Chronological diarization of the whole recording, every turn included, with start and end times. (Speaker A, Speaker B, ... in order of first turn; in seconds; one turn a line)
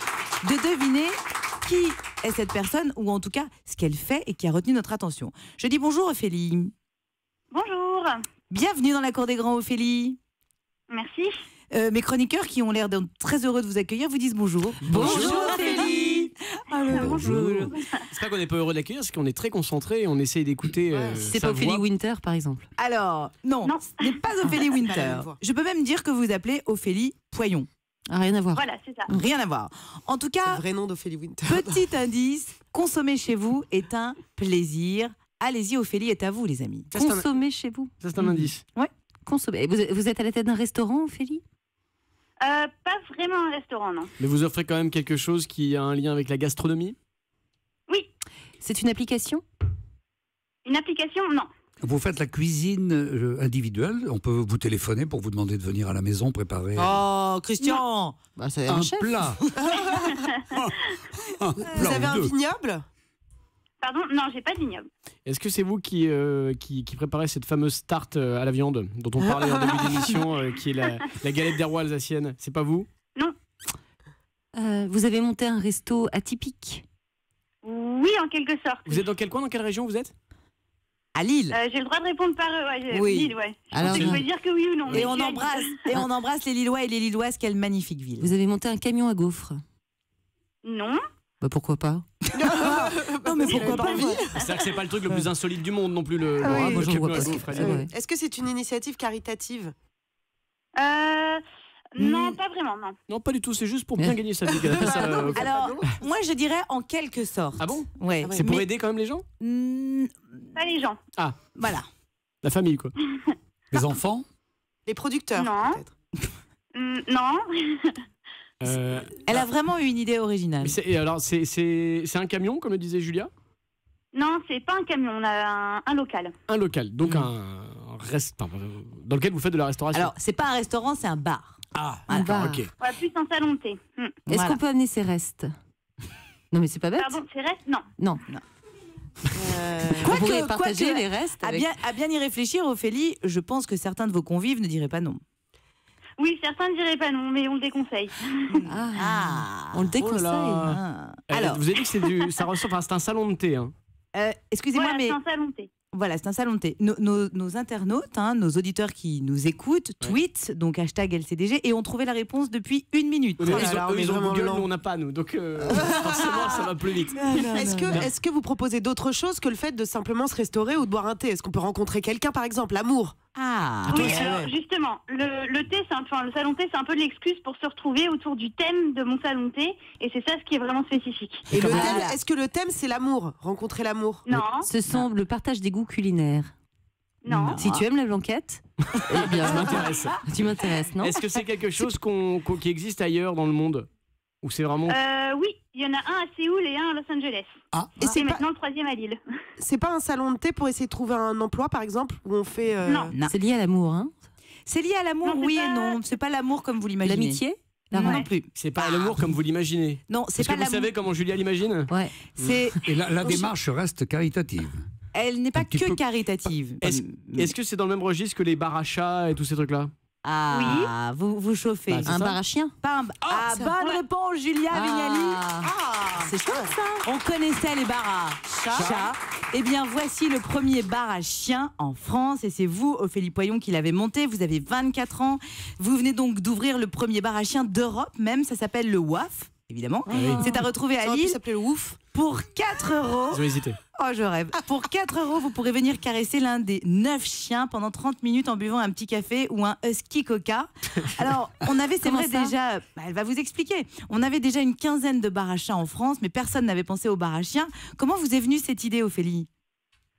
Speaker A: 0.4-6.7
Speaker B: 7.5-8.2
Speaker A: 8.5-10.2
Speaker B: 10.9-11.3
Speaker A: 11.7-17.8
Speaker C: 14.8-16.2
Speaker D: 14.9-16.3
Speaker E: 16.9-17.7
Speaker B: 16.9-17.2
Speaker F: 17.2-21.8
Speaker D: 20.9-21.3
Speaker C: 21.1-22.7
Speaker A: 22.8-27.7
Speaker B: 23.6-24.1
Speaker D: 24.7-25.4
Speaker C: 28.1-29.2
Speaker B: 28.5-29.1
Speaker A: 29.1-30.6
Speaker D: 30.5-31.8
Speaker A: 31.4-36.9
Speaker F: 36.9-37.3
Speaker C: 36.9-38.5
Speaker F: 38.0-38.6
Speaker C: 39.2-41.4
Speaker B: 42.4-44.1
Speaker F: 44.2-46.9
Speaker C: 48.6-49.4
Speaker B: 50.6-51.5
Speaker E: 51.8-56.9
Speaker A: 56.9-58.2
Speaker C: 58.4-59.2
Speaker E: 58.6-59.4
Speaker B: 59.9-60.6
Speaker E: 60.5-62.3
Speaker D: 61.7-62.9
Speaker B: 63.8-64.9
Speaker F: 65.2-72.9
Speaker D: 69.3-69.7
Speaker C: 74.5-76.8
Speaker B: 77.6-79.0
Speaker F: 78.8-80.1
Speaker A: 81.1-81.6
Speaker B: 81.5-85.7
Speaker A: 82.9-83.3
Speaker C: 83.7-84.2
Speaker F: 83.8-84.2
Speaker F: 84.8-85.1
Speaker A: 84.9-88.3
Speaker C: 88.2-89.6
Speaker B: 90.6-91.0
Speaker C: 91.4-92.0
Speaker A: 92.3-94.2
Speaker D: 92.3-94.4
Speaker B: 93.4-94.5
Speaker F: 94.3-97.8
Speaker A: 96.4-96.9
Speaker C: 96.5-97.9
Speaker D: 96.5-96.8
Speaker D: 97.5-99.7
Speaker B: 100.8-101.4
Speaker B: 102.0-102.9
Speaker A: 102.0-102.4
Speaker F: 103.1-105.5
Speaker C: 104.0-104.2
Speaker D: 104.5-106.0
Speaker C: 104.8-105.1
Speaker A: 105.2-108.7
Speaker F: 107.6-109.2
Speaker A: 109.4-110.5
Speaker B: 110.5-111.0
Speaker A: 111.5-111.9
Speaker F: 112.4-112.9
Speaker E: 113.7-114.2
Speaker D: 114.9-115.9
Speaker B: 115.3-115.8
Speaker B: 116.7-118.0
Speaker F: 118.6-119.5
Speaker A: 119.2-120.8
Speaker F: 120.6-123.3
Speaker B: 124.1-126.3
Speaker F: 126.5-130.1
Speaker A: 127.0-127.3
Speaker A: 129.9-132.5
Speaker F: 131.8-132.7
Speaker C: 132.1-132.7
Speaker B: 132.8-134.2
Speaker A: 134.3-134.6
Speaker C: 134.3-135.5
Speaker C: 136.5-137.2
Speaker B: 137.0-137.9
Speaker C: 138.0-138.2
Speaker D: 139.3-140.2
Speaker A: 139.9-145.2
Speaker C: 140.0-141.7
Speaker B: 146.2-148.6
Speaker A: 148.5-149.9
Speaker C: 148.7-150.8
Speaker F: 149.9-150.8
Speaker A: 150.6-151.6
Speaker F: 151.3-153.7
Speaker A: 154.1-155.2
Speaker B: 154.7-155.7
Speaker A: 155.9-163.7
Speaker F: 163.4-167.4
Speaker D: 163.4-164.7
Speaker A: 165.7-168.1
Speaker D: 165.7-166.6
Speaker D: 167.5-173.1
Speaker A: 173.3-174.4
Speaker B: 173.9-181.5
Speaker D: 173.9-174.5
Speaker A: 181.5-182.2
Speaker D: 181.5-184.3
Speaker C: 181.6-182.1
Speaker B: 184.3-184.7
Speaker C: 184.5-186.5
Speaker B: 187.2-187.6
Speaker A: 187.3-187.8
Speaker C: 187.5-191.9
Speaker F: 188.9-190.2
Speaker F: 191.0-193.9
Speaker F: 194.4-195.0
Speaker B: 194.9-197.5
Speaker D: 198.0-198.4
Speaker B: 198.0-199.2
Speaker D: 199.6-203.1
Speaker B: 202.8-203.1
Speaker C: 203.2-204.1
Speaker A: 204.7-209.2
Speaker B: 205.2-206.0
Speaker C: 207.0-208.3
Speaker F: 208.5-212.6
Speaker A: 210.1-210.9
Speaker C: 211.9-212.2
Speaker A: 212.3-213.5
Speaker E: 212.8-214.8
Speaker A: 215.1-217.5
Speaker E: 215.5-216.0
Speaker F: 216.8-219.9
Speaker A: 220.2-222.2
Speaker B: 220.5-220.9
Speaker F: 221.9-222.4
Speaker C: 222.1-222.7
Speaker A: 222.8-225.4
Speaker D: 223.3-223.7
Speaker C: 224.7-227.0
Speaker D: 225.8-226.3
Speaker A: 227.0-241.4
Speaker F: 228.7-229.1
Speaker C: 240.1-240.6
Speaker F: 240.1-240.4
Speaker D: 241.0-242.0
Speaker A: 242.1-259.5
Speaker F: 243.3-243.8
Speaker C: 252.0-252.5